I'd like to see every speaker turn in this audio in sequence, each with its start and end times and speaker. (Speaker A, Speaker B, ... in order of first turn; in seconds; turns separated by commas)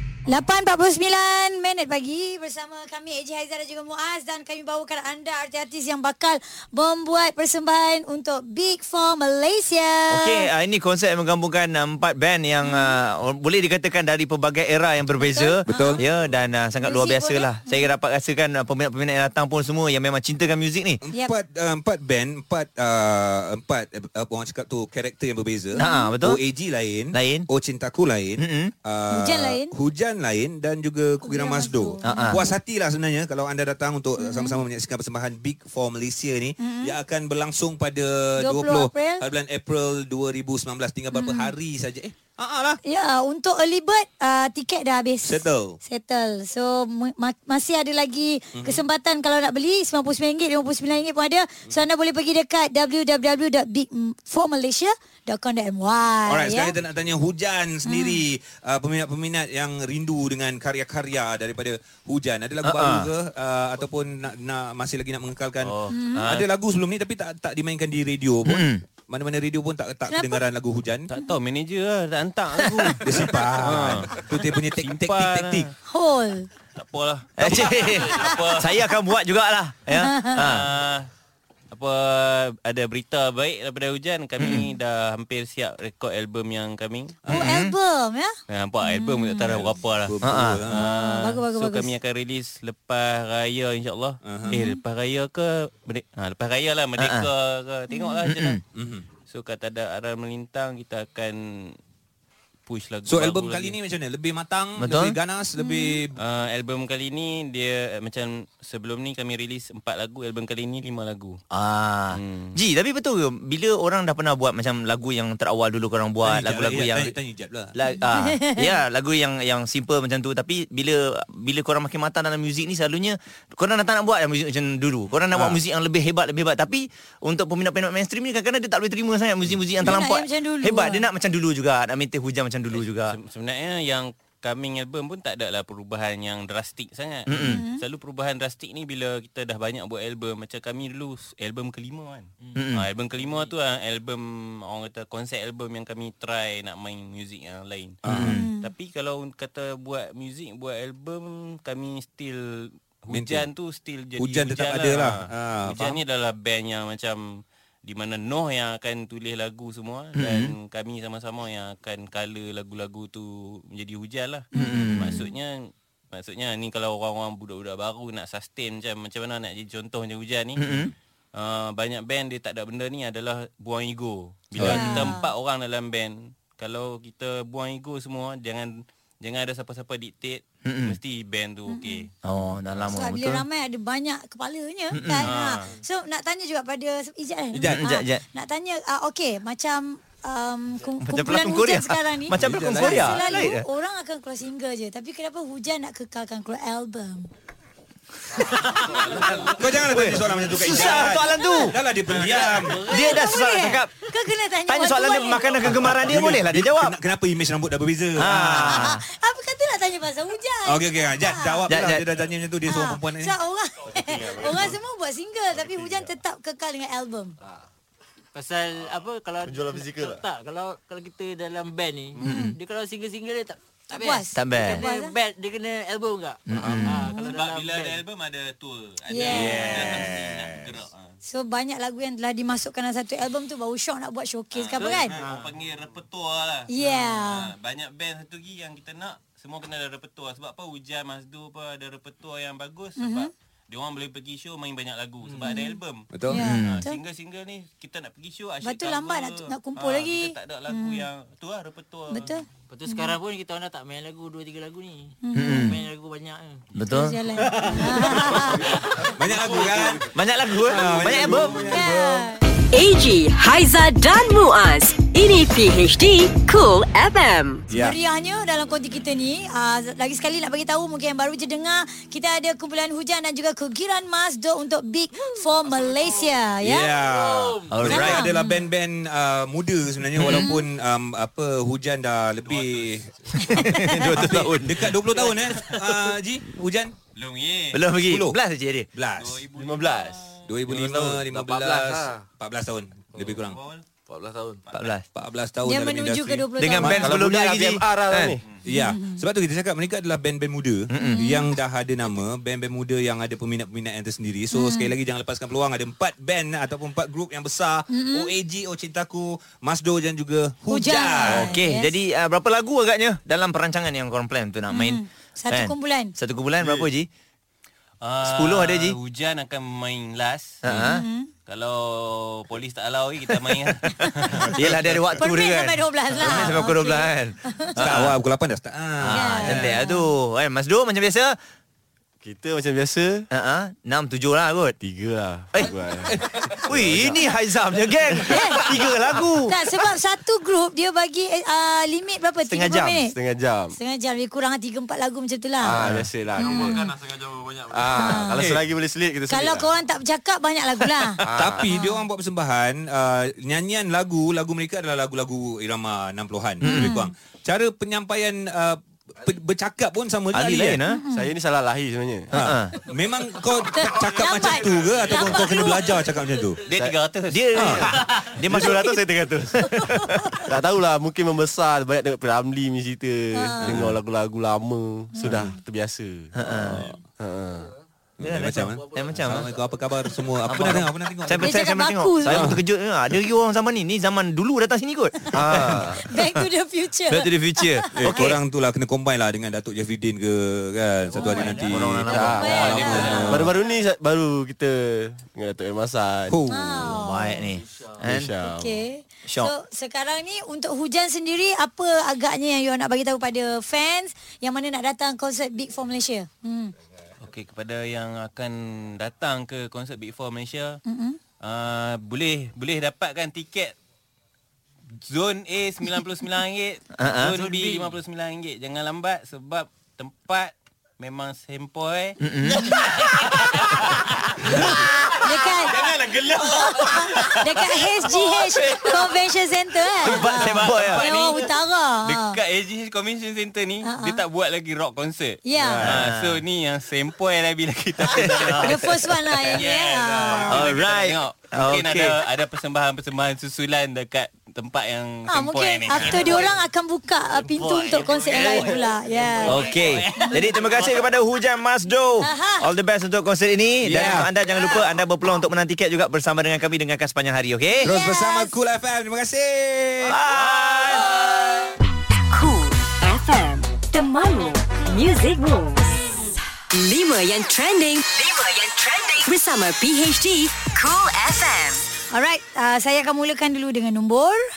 Speaker A: 0.3-10.5, Speaker B: 10.1-21.0, Speaker A: 12.6-13.0, Speaker A: 15.2-16.0, Speaker C: 15.7-16.0, Speaker A: 16.8-17.9, Speaker C: 21.0-42.8, Speaker A: 25.8-26.1, Speaker B: 25.8-26.4, Speaker B: 27.1-27.5, Speaker B: 28.4-28.7, Speaker A: 29.1-29.7, Speaker A: 31.2-32.5, Speaker B: 32.0-32.4, Speaker A: 34.2-34.6, Speaker A: 36.6-37.0, Speaker A: 38.4-39.2, Speaker A: 41.1-41.5, Speaker A: 42.9-56.8, Speaker C: 45.2-45.8, Speaker C: 48.5-48.8, Speaker C: 56.3-71.1, Speaker A: 57.9-58.2, Speaker B: 62.6-63.1, Speaker D: 65.6-66.5, Speaker A: 65.9-66.2, Speaker B: 68.5-68.8, Speaker A: 70.1-70.4, Speaker D: 71.1-75.7, Speaker C: 73.0-75.7, Speaker A: 75.9-76.5, Speaker D: 76.8-79.0, Speaker B: 77.4-80.7, Speaker A: 78.0-78.3, Speaker A: 79.9-80.5, Speaker D: 80.4-81.1, Speaker D: 81.7-87.2, Speaker B: 84.4-84.7, Speaker B: 87.3-87.8, Speaker A: 87.3-89.6, Speaker D: 88.5-90.2, Speaker C: 89.5-90.8, Speaker B: 90.2-90.6, Speaker D: 90.7-98.6, Speaker A: 90.7-91.9, Speaker C: 94.2-94.5, Speaker A: 94.5-94.8, Speaker B: 97.0-97.3, Speaker A: 97.9-98.2, Speaker B: 98.2-98.6, Speaker C: 98.8-99.0, Speaker D: 99.3-101.8, Speaker D: 102.7-103.8, Speaker C: 103.1-106.2, Speaker B: 104.8-105.2, Speaker A: 105.6-106.0, Speaker D: 106.2-111.4, Speaker B: 111.5-117.1, Speaker D: 112.1-112.6, Speaker C: 116.2-117.7, Speaker B: 117.8-133.2, Speaker A: 118.0-118.7, Speaker C: 125.3-125.6, Speaker A: 129.8-131.1, Speaker D: 132.7-148.0, Speaker B: 137.3-137.6, Speaker A: 137.4-137.8, Speaker B: 142.5-142.9, Speaker C: 148.0-148.4, Speaker B: 148.1-148.5, Speaker A: 148.3-148.7, Speaker D: 148.6-170.7, Speaker C: 153.1-153.5, Speaker C: 154.2-156.0, Speaker B: 160.2-160.5, Speaker A: 164.5-165.3, Speaker B: 164.5-165.2, Speaker B: 170.6-170.9, Speaker D: 171.4-182.1, Speaker C: 174.6-175.1, Speaker A: 174.6-175.3, Speaker B: 180.6-181.0, Speaker A: 181.7-182.1, Speaker B: 182.2-183.4, Speaker A: 182.9-197.3, Speaker B: 184.9-185.3, Speaker D: 185.2-185.8, Speaker C: 187.5-187.8, Speaker B: 187.6-188.2, Speaker B: 191.0-193.7, Speaker C: 192.3-193.3, Speaker C: 199.4-202.9, Speaker B: 199.7-201.8, Speaker A: 200.8-201.7, Speaker D: 202.2-202.8, Speaker B: 202.7-203.9, Speaker A: 202.8-205.8, Speaker B: 204.7-207.0, Speaker C: 205.7-208.9, Speaker B: 208.2-209.0, Speaker A: 208.5-211.7, Speaker C: 210.7-213.4, Speaker B: 211.7-212.1, Speaker A: 212.6-217.3, Speaker E: 214.0-214.8, Speaker F: 218.3-228.0, Speaker E: 219.4-220.2, Speaker B: 222.2-222.6, Speaker A: 222.2-222.6, Speaker A: 223.9-225.1, Speaker B: 224.3-224.8, Speaker B: 226.5-227.1, Speaker G: 226.5-226.9, Speaker A: 227.1-227.3, Speaker D: 227.2-231.2, Speaker A: 229.1-229.8, Speaker C: 229.3-230.7, Speaker A: 231.2-235.2, Speaker D: 234.5-246.1, Speaker F: 234.8-235.5, Speaker A: 236.7-237.5, Speaker A: 243.0-243.3, Speaker F: 245.3-245.6, Speaker A: 245.4-245.8, Speaker C: 246.1-246.5, Speaker A: 246.3-247.0, Speaker B: 246.3-246.8, Speaker D: 246.6-252.3, Speaker A: 248.6-251.1, Speaker A: 252.1-253.2, Speaker F: 252.7-256.6, Speaker A: 255.2-255.7, Speaker B: 255.3-255.8, Speaker B: 256.7-257.2, Speaker A: 256.9-258.8, Speaker C: 259.1-262.2, Speaker B: 259.4-261.9, Speaker A: 261.7-262.4, Speaker H: 262.7-267.6, Speaker C: 267.7-268.0, Speaker A: 267.7-276.9, Speaker C: 276.6-283.1, Speaker G: 277.0-277.8, Speaker B: 277.7-278.2, Speaker A: 277.8-278.6, Speaker B: 280.2-280.5, Speaker A: 280.3-280.6, Speaker D: 282.4-283.0, Speaker A: 283.4-283.8, Speaker B: 283.4-284.9, Speaker C: 283.6-286.9, Speaker E: 283.8-284.5, Speaker D: 285.1-285.7, Speaker D: 287.1-287.8, Speaker B: 287.7-288.9, Speaker C: 288.0-288.4, Speaker C: 288.9-289.4, Speaker D: 289.2-290.5, Speaker E: 289.5-291.2, Speaker C: 290.5-293.6, Speaker G: 290.9-292.2, Speaker G: 293.1-293.4, Speaker D: 293.5-293.8, Speaker G: 294.1-294.6, Speaker D: 294.6-294.9, Speaker B: 294.7-295.1, Speaker C: 295.1-297.2, Speaker A: 295.6-297.1, Speaker B: 296.6-298.4, Speaker E: 297.0-298.4, Speaker C: 298.6-311.5, Speaker A: 298.7-299.2, Speaker B: 300.9-301.3, Speaker A: 301.0-301.5, Speaker A: 304.5-304.9, Speaker A: 307.9-308.3, Speaker A: 310.7-311.9, Speaker B: 311.2-317.1, Speaker A: 314.7-316.1, Speaker D: 318.0-320.6, Speaker B: 318.2-319.0, Speaker B: 320.6-321.1, Speaker A: 320.9-321.3, Speaker D: 321.5-324.6, Speaker B: 323.5-328.2, Speaker A: 325.2-327.8, Speaker C: 327.8-329.8, Speaker B: 329.0-331.4, Speaker A: 329.1-330.1, Speaker E: 332.2-333.3, Speaker B: 333.3-334.8, Speaker E: 334.8-337.3, Speaker B: 336.6-339.5, Speaker A: 338.3-338.6, Speaker A: 339.5-343.1, Speaker B: 342.4-343.0, Speaker E: 343.1-343.8, Speaker A: 343.7-345.8, Speaker E: 345.6-346.9, Speaker A: 346.4-346.9, Speaker E: 347.7-349.7, Speaker A: 347.9-348.4, Speaker C: 348.4-348.6, Speaker A: 349.3-352.0, Speaker E: 351.2-351.7, Speaker C: 351.3-360.8, Speaker A: 356.6-357.1, Speaker B: 356.6-357.0, Speaker B: 360.3-361.0, Speaker A: 360.9-361.3, Speaker E: 361.1-362.3, Speaker B: 362.3-362.8, Speaker C: 362.3-366.6, Speaker A: 363.6-366.0, Speaker D: 366.7-368.3, Speaker B: 367.3-369.1, Speaker C: 367.6-367.9, Speaker E: 367.6-377.7, Speaker A: 369.8-370.4, Speaker A: 373.3-373.8, Speaker C: 373.6-374.0, Speaker A: 375.2-375.4, Speaker B: 376.4-376.9, Speaker C: 378.2-381.5, Speaker B: 378.2-379.5, Speaker G: 379.1-379.4, Speaker B: 380.4-386.4, Speaker A: 381.4-382.5, Speaker C: 382.3-382.6, Speaker E: 385.3-386.0, Speaker A: 386.0-388.2, Speaker B: 387.1-388.4, Speaker C: 387.9-393.6, Speaker A: 391.2-393.4, Speaker B: 391.6-393.1, Speaker E: 392.0-396.4, Speaker D: 392.5-393.5, Speaker C: 396.3-397.0, Speaker A: 396.5-397.5, Speaker B: 396.8-398.3, Speaker G: 397.7-397.9, Speaker E: 398.0-398.9, Speaker A: 398.4-406.7, Speaker B: 399.3-399.5, Speaker D: 407.2-410.8, Speaker A: 410.9-411.2, Speaker D: 411.4-413.7, Speaker D: 415.0-429.1, Speaker B: 417.0-417.4, Speaker B: 422.2-422.8, Speaker B: 424.5-424.7, Speaker A: 425.2-425.8, Speaker A: 426.5-432.4, Speaker B: 430.0-431.1, Speaker D: 430.0-446.6, Speaker A: 433.8-434.2, Speaker A: 435.4-435.9, Speaker B: 435.8-436.4, Speaker B: 438.0-438.8, Speaker A: 438.6-440.6, Speaker B: 440.5-442.1, Speaker A: 445.3-449.6, Speaker D: 447.5-451.0, Speaker B: 449.4-457.9, Speaker A: 452.2-452.6, Speaker C: 453.8-454.3, Speaker A: 457.8-458.5, Speaker C: 457.8-460.2, Speaker B: 460.0-461.2, Speaker H: 462.3-466.2, Speaker H: 466.7-471.8, Speaker A: 472.1-474.4